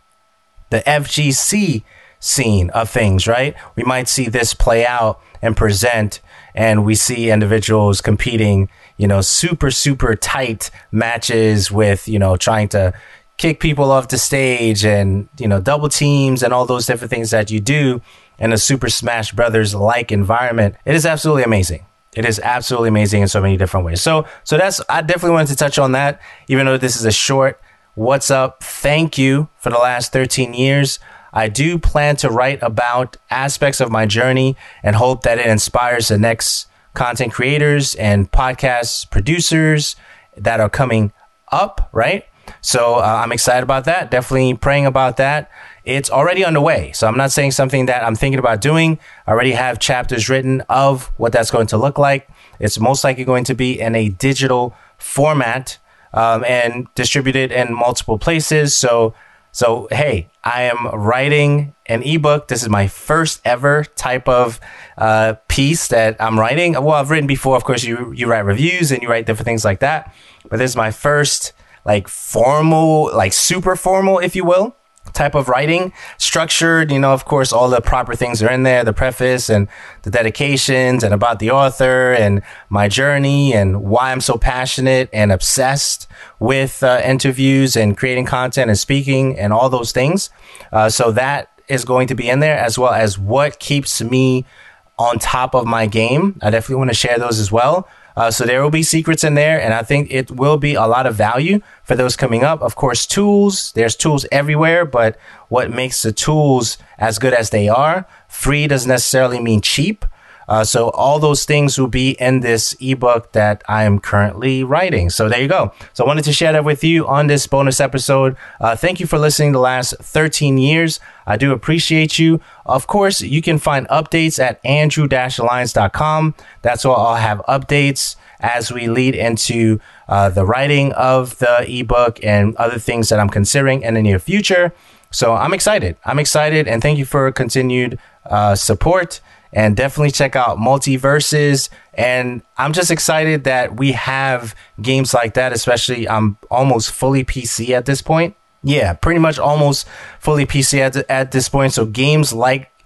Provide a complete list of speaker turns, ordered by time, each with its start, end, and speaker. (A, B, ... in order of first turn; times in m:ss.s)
0:00.7-1:34.4 A
1:35.0-2:32.7 A